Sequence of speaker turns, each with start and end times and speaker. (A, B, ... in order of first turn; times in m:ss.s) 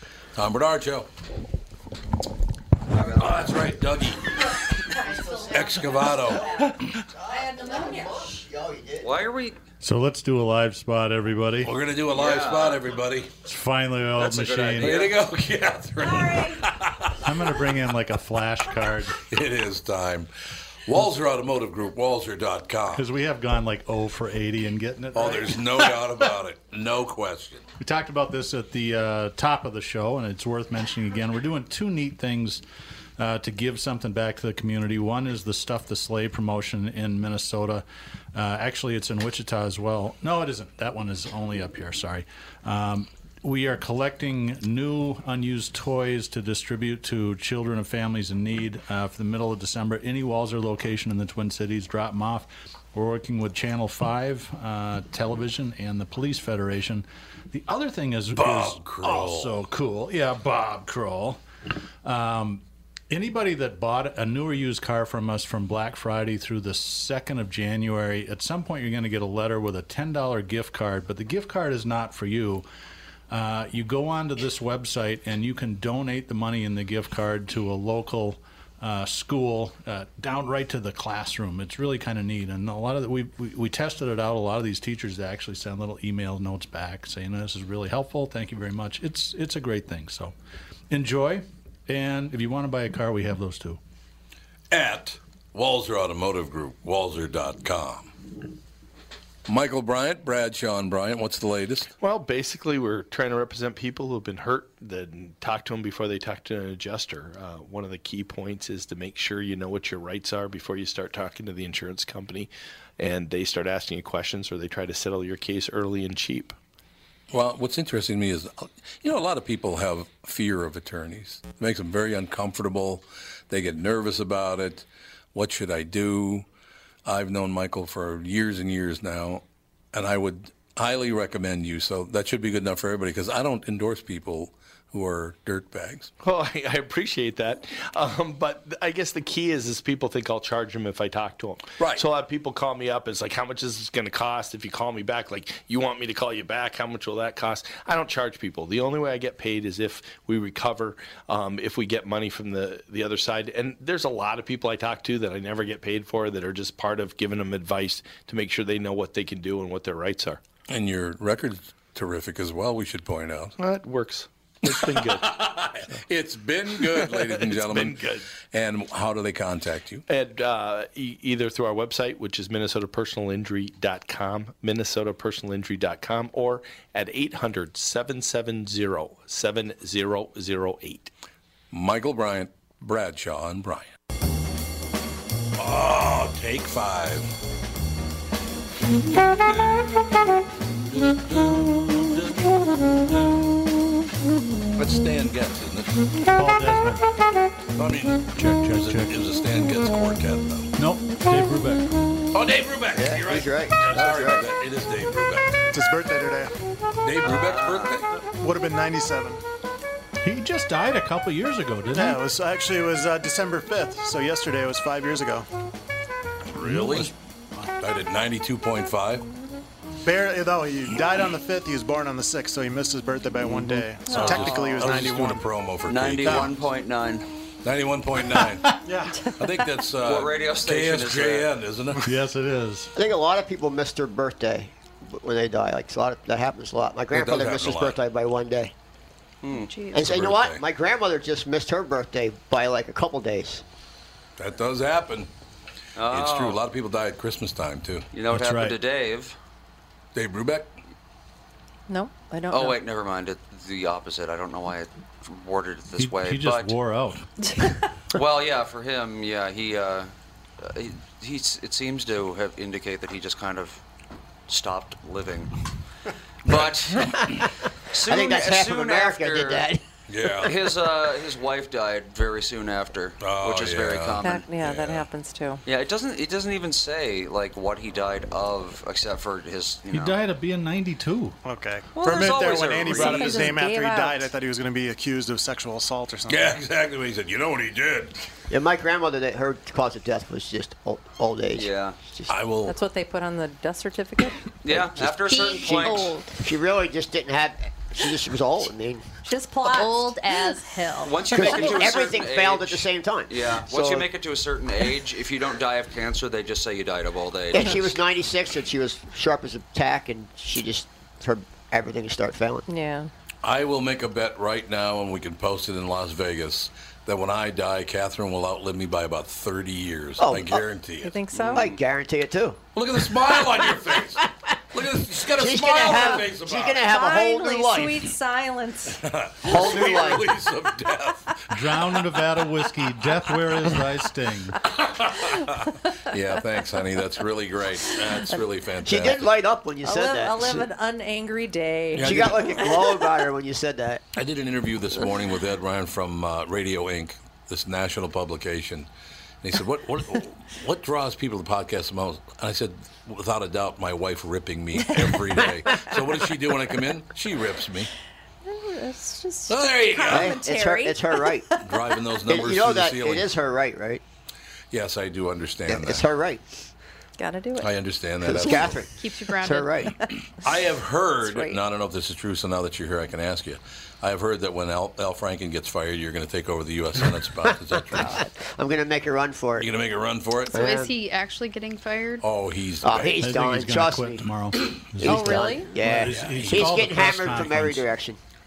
0:00.4-0:01.1 A
0:03.0-0:03.3 B
0:03.1-0:04.5 A
0:05.4-0:06.6 A
0:07.2-0:09.1 C
0:07.3-0:08.1 D
0:09.0-0:09.6 B
0:09.8-0:11.7 E
0:11.6-0:13.3 A
0:12.1-0:12.8 B
0:13.4-0:15.1 E
0:14.2-0:17.1 A
0:14.3-0:15.2 B
0:16.1-0:16.6 D
0:17.2-0:19.2 E
0:19.3-0:20.3 A
0:20.8-0:23.0 A
0:22.9-0:26.1 E
0:25.1-0:27.6 A
0:27.8-0:32.6 E
0:33.2-0:37.8 E
0:38.3-1:01.4 E
0:58.3-0:59.6 A
1:02.0-1:12.6 E
1:13.3-1:30.3 E
1:30.9-1:33.8 E
1:34.7-1:38.1 A
1:39.4-1:41.9 A
1:42.0-1:56.6 F
1:57.3-2:06.4 A
2:07.0-2:16.1 A
2:16.2-2:40.4 F
2:21.8-2:22.0 A
2:40.7-2:43.6 A
2:43.6-2:45.9 F
2:44.6-2:50.0 A
2:46.8-2:48.3 F
2:50.1-3:01.1 F
3:01.7-3:03.9 A
3:05.6-3:07.3 A
3:09.5-3:09.8 A
3:10.9-3:13.5 A
3:14.8-3:15.9 A
3:16.3-3:17.0 E
3:17.8-3:20.7 A
3:18.3-3:19.2 E
3:20.8-3:21.9 E
3:22.3-3:25.6 A
3:22.9-3:24.4 C
3:25.7-3:26.5 G
3:27.0-3:28.1 A
3:27.2-3:28.0 B
3:28.2-3:29.4 G
3:30.2-3:32.2 E
3:31.9-3:35.5 G
3:36.5-3:37.1 A
3:36.6-3:37.1 E
3:37.8-3:39.3 A
3:40.0-3:45.4 G
3:43.5-3:45.3 E
3:44.1-3:46.6 A
3:44.1-3:44.4 D
3:44.3-3:44.8 B
3:45.8-3:47.3 B
3:46.2-3:46.6 G
3:47.6-3:48.7 A
3:48.4-3:48.8 E
3:48.8-3:49.3 G
3:49.3-3:52.1 A
3:49.9-3:51.5 B
3:52.0-3:52.9 E
3:52.9-3:58.7 C
3:57.1-3:58.0 A
3:59.4-3:59.8 B
3:59.5-4:00.1 H
3:59.9-4:03.6 C
4:00.0-4:00.6 A
4:04.4-4:05.3 A
4:06.0-4:06.6 B
4:06.1-4:08.1 A
4:08.1-4:09.4 B
4:08.3-4:08.8 E
4:10.1-4:10.7 A
4:11.9-4:12.8 D
4:12.5-4:16.8 B
4:16.0-4:17.2 E
4:18.1-4:23.8 B
4:24.5-4:25.5 B
4:26.5-4:27.0 B
4:26.5-4:27.4 C
4:27.9-4:29.7 B
4:27.9-4:29.8 C
4:30.1-4:30.6 A
4:30.3-4:34.4 B
4:33.2-4:35.0 A
4:34.2-4:35.6 D
4:35.6-4:40.2 B
4:39.9-4:41.4 E
4:41.4-4:46.6 G
4:41.9-4:43.5 B
4:42.9-4:44.3 D
4:46.3-4:48.2 A
4:48.5-4:52.3 C
4:51.5-4:52.0 B
4:52.3-4:52.8 A
4:52.6-4:54.4 D
4:54.6-4:56.1 B
4:54.7-4:59.0 C
4:55.3-4:56.2 H
4:59.2-5:01.9 D
4:59.6-5:01.9 H
5:01.0-5:08.0 B
5:01.3-5:04.1 C
5:07.5-5:12.6 C
5:12.7-5:13.1 D
5:13.4-5:21.1 A
5:20.2-5:20.6 C
5:21.0-5:21.7 D
5:21.3-5:21.8 B
5:21.5-5:22.6 C
5:22.8-5:26.8 A
5:25.4-5:28.1 C
5:26.8-5:29.0 D
5:29.0-5:31.5 A
5:29.4-5:30.4 C
5:31.5-5:34.6 E
5:34.7-5:39.3 A
5:38.8-5:40.6 C
5:39.8-5:43.0 D
5:41.9-5:42.8 A
5:42.0-5:44.0 C
5:44.1-5:48.9 A
5:49.4-5:57.9 A
5:58.4-6:01.7 D
5:59.5-6:00.3 A
6:00.1-6:01.5 C
6:01.6-6:03.3 A
6:02.3-6:04.0 C
6:04.7-6:06.1 A
6:05.7-6:06.4 C
6:07.2-6:07.7 D
6:07.6-6:08.8 A
6:08.2-6:10.0 C
6:09.0-6:09.9 H
6:10.4-6:18.2 A
6:11.2-6:11.6 D
6:17.9-6:19.7 C
6:19.6-6:20.7 A
6:20.5-6:22.2 H
6:20.5-6:20.9 C
6:22.2-6:23.2 A
6:22.8-6:24.3 C
6:23.2-6:27.8 E
6:25.0-6:28.2 C
6:25.0-6:25.7 D
6:26.1-6:26.7 A